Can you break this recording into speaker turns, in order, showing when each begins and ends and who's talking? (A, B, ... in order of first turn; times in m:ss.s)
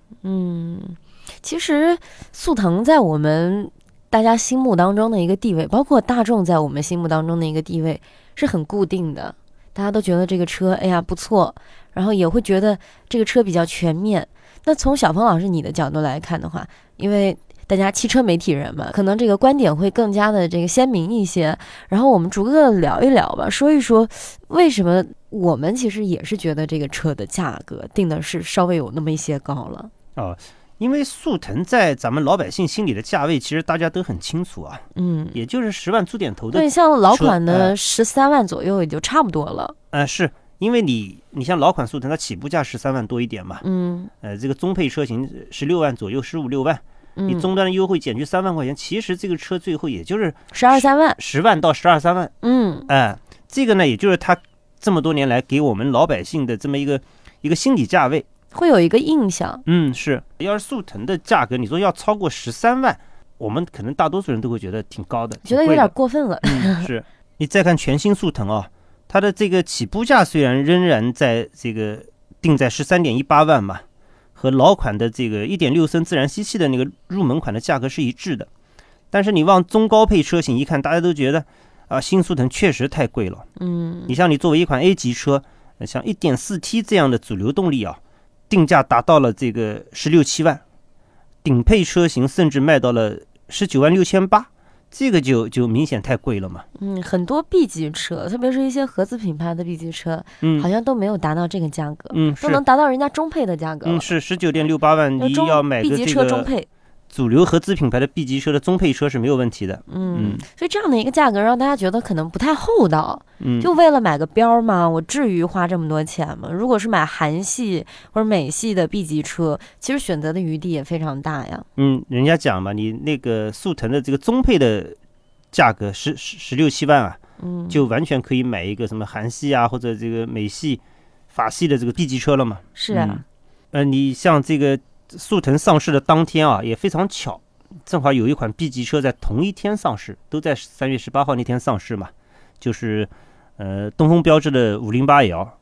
0:00.2-0:29.9 A
0:30.2-0:37.8 B
0:35.0-0:35.4 A
0:36.5-0:39.8 A
0:39.9-0:43.6 B
0:43.6-0:44.1 A
0:44.2-0:52.3 B
0:47.2-0:47.5 A
0:50.5-0:51.2 A
0:52.4-0:52.9 A
0:52.9-0:58.3 B
0:58.5-0:59.6 A
0:59.7-1:13.8 B
1:05.5-1:06.9 A
1:14.4-1:18.5 B
1:19.1-1:23.4 B
1:23.6-1:24.2 A
1:24.1-1:30.6 B
1:31.4-1:36.6 B
1:36.8-1:44.2 A
1:40.4-1:40.7 B
1:42.1-1:42.6 B
1:43.8-1:46.5 B
1:45.2-1:46.7 A
1:47.1-1:50.4 B
1:49.9-2:01.7 A
1:53.4-1:53.7 B
2:01.8-2:05.0 B
2:05.5-2:25.5 B
2:07.4-2:07.9 A
2:12.8-2:13.2 A